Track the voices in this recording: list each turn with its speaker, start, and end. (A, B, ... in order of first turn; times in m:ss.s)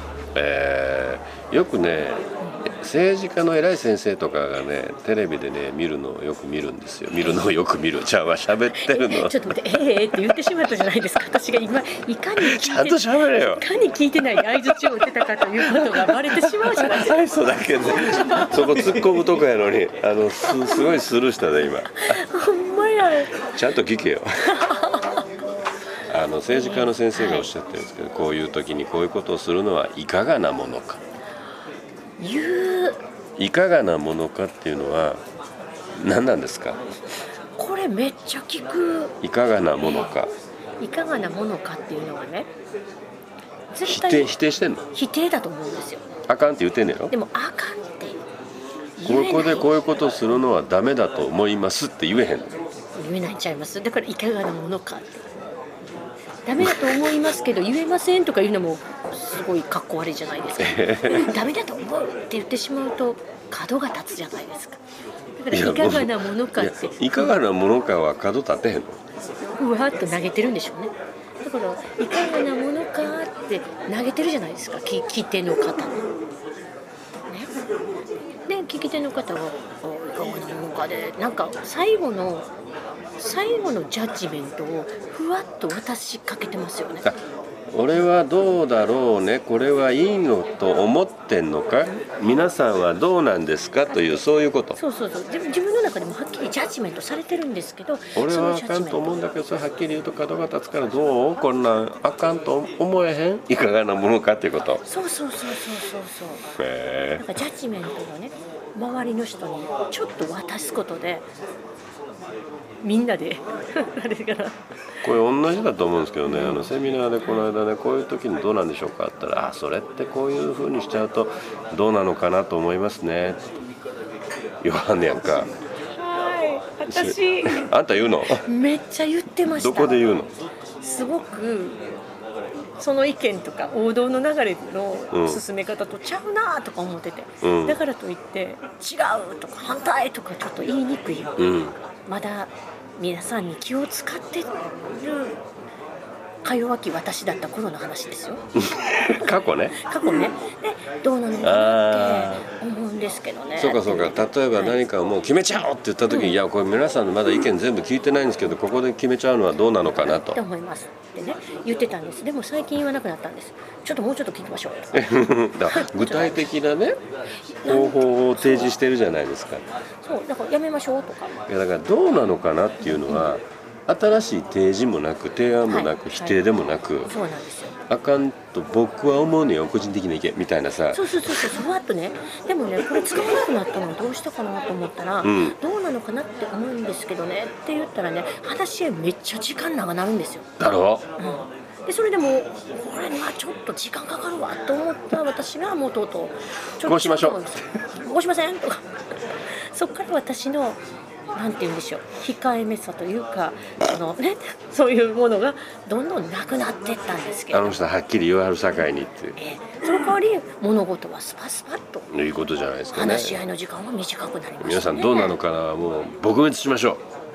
0:00.4-0:09.4 A
0:08.7-0:17.2 B
0:12.4-0:13.6 A
0:14.5-0:15.1 A
0:15.6-0:22.2 A
0:18.0-0:19.1 B
0:20.4-0:20.9 B
0:21.9-0:23.4 B
0:23.5-0:24.5 A
0:24.5-0:25.3 B
0:26.1-0:31.0 A
0:26.5-0:27.5 B
0:32.2-0:33.0 B
0:33.4-0:35.2 A
0:36.0-0:36.8 A
0:37.6-0:39.2 B
0:39.2-0:40.3 A
0:39.8-0:40.1 B
0:40.8-0:42.5 B
0:43.7-0:44.4 B
0:43.8-0:44.8 A
0:44.9-0:46.0 B
0:46.3-0:47.1 A
0:47.1-0:48.2 B
0:49.0-0:50.1 B
0:49.0-0:52.6 A
0:53.0-0:55.3 B
0:56.5-1:04.8 B
1:00.6-1:01.4 A
1:05.4-1:07.4 B
1:05.5-1:09.0 A
1:09.6-1:16.1 B
1:18.5-1:22.5 B
1:23.2-1:27.0 B
1:27.7-1:34.8 A
1:34.8-1:39.1 B
1:38.2-1:44.8 A
1:44.8-1:46.5 B
1:46.6-1:47.4 A
1:47.2-1:51.3 B
1:52.8-1:54.6 B
1:55.0-2:03.4 A
1:56.2-1:56.7 B
2:04.6-2:05.5 A
2:06.0-2:07.7 B
2:06.9-2:08.5 A
2:08.2-2:10.0 B
2:09.5-2:10.3 A
2:10.8-2:11.9 B
2:12.8-2:21.6 B
2:15.1-2:15.4 A
2:17.4-2:17.8 A
2:21.4-2:21.8 A
2:22.1-2:25.4 B
2:26.4-2:28.4 B
2:28.6-2:29.8 A
2:29.7-2:34.8 B
2:31.4-2:32.4 A
2:33.6-2:40.4 A
2:36.1-2:36.4 B
2:39.9-2:45.2 B
2:44.9-2:47.0 A
2:45.7-2:46.5 B
2:47.5-2:48.8 B
2:47.6-2:49.6 A
2:50.0-2:51.4 B
2:51.5-2:57.1 A
2:52.8-2:53.4 B
2:55.7-2:56.4 B
2:57.0-2:57.7 B
2:57.9-3:01.1 A
3:00.9-3:10.5 B
3:05.2-3:05.6 A
3:10.6-3:11.0 A
3:11.2-3:18.8 B
3:16.8-3:17.4 A
3:19.5-3:20.8 B
3:21.4-3:27.8 B
3:27.5-3:29.4 A
3:29.4-3:32.1 B
3:32.1-3:33.4 A
3:32.9-3:35.4 B
3:34.6-3:37.0 A